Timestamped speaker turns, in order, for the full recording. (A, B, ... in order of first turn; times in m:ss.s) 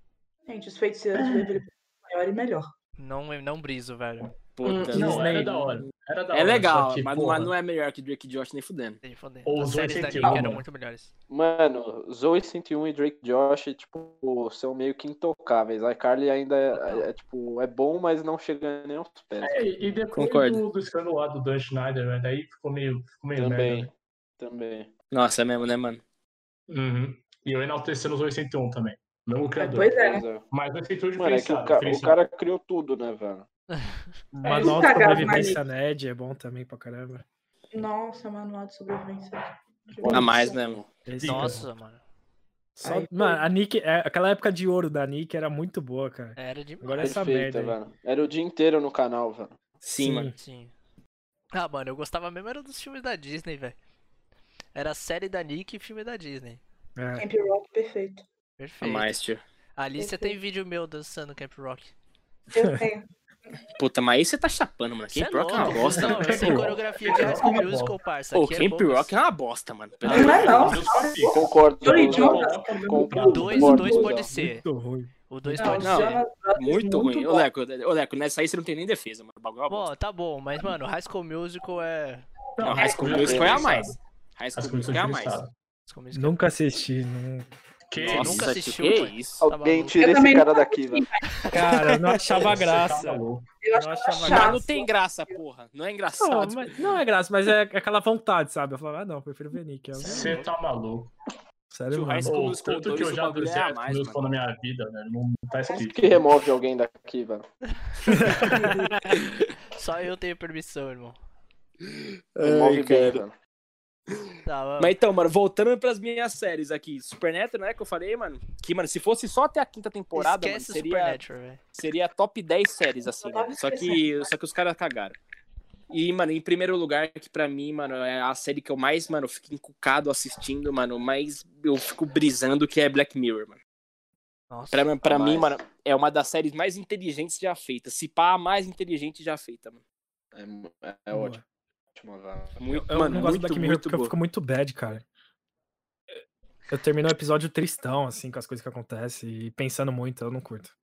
0:00.5-0:02.7 A
0:01.2-0:01.6 B
0:03.0-0:04.3 C
0:04.2-0:07.5 B
0:04.6-0:05.4 D
0:04.7-0:05.0 A
0:04.9-0:05.8 E
0:06.3-0:09.0 D
0:09.0-0:11.1 C
0:09.5-0:10.6 B
0:11.3-0:19.7 F
0:16.7-0:17.1 C
0:19.4-0:23.9 B
0:20.2-0:20.6 D
0:23.4-0:24.9 F
0:25.1-0:26.0 D
0:26.7-0:30.0 B
0:29.6-0:30.3 A
0:30.0-0:30.4 F
0:30.5-0:32.2 B
0:31.2-0:33.5 F
0:34.3-0:37.2 E
0:34.4-0:35.6 A
0:37.7-0:40.6 A
0:40.0-0:40.8 F
0:40.1-0:40.8 D
0:41.1-0:41.7 E
0:41.2-0:41.6 B
0:41.2-0:42.0 C
0:42.8-0:47.8 E
0:42.8-0:43.4 A
0:46.4-0:47.2 C
0:47.0-0:49.6 F
0:49.8-0:50.3 D
0:50.0-0:50.3 E
0:50.3-0:50.7 C
0:51.5-0:53.8 C
0:54.8-0:56.6 C
0:57.0-0:57.3 E
0:57.2-0:58.2 A
0:58.6-0:59.2 C
0:58.8-0:59.4 D
0:59.8-1:01.9 C
1:00.0-1:00.4 A
1:02.5-1:03.1 A
1:02.6-1:02.8 E
1:03.8-1:06.7 D
1:05.1-1:09.2 C
1:05.6-1:08.0 B
1:07.1-1:07.7 A
1:08.3-1:10.8 D
1:10.0-1:14.2 A
1:10.0-1:14.0 B
1:11.2-1:14.3 F
1:13.3-1:14.6 C
1:13.8-1:16.0 E
1:15.3-1:16.2 C
1:15.6-1:17.5 A
1:15.8-1:19.9 D
1:19.7-1:22.3 C
1:22.6-1:24.0 B
1:22.6-1:25.4 D
1:22.8-1:23.6 A
1:22.9-1:23.6 F
1:24.6-1:25.5 B
1:25.9-1:26.4 C
1:26.1-1:27.5 E
1:27.9-1:28.5 B
1:28.0-1:29.4 D
1:28.1-1:30.1 C
1:29.4-1:31.1 F
1:30.0-1:31.6 A
1:31.5-1:33.2 E
1:31.8-1:32.1 D
1:32.3-1:33.5 B
1:33.6-1:35.4 A
1:33.7-1:34.7 E
1:34.3-1:36.8 D
1:36.2-1:40.3 E
1:39.9-1:40.5 C
1:40.1-1:41.1 B
1:41.7-1:42.4 E
1:41.9-1:44.2 D
1:42.2-1:46.2 B
1:45.7-1:47.5 F
1:48.1-1:48.6 C
1:48.1-1:48.9 E
1:48.5-1:49.2 D
1:49.7-1:51.2 C
1:51.8-1:53.2 D
1:52.4-1:53.3 F
1:54.4-1:55.0 C
1:54.8-2:01.2 D
2:00.1-2:01.6 C
2:01.7-2:05.2 D
2:03.0-2:04.3 A
2:05.9-2:13.6 D
2:14.5-2:14.9 C
2:14.7-2:19.8 D
2:15.0-2:15.6 F
2:20.3-2:21.4 F
2:21.1-2:21.4 E
2:22.0-2:22.6 F
2:22.6-2:24.1 D
2:22.8-2:25.0 E
2:26.7-2:30.7 E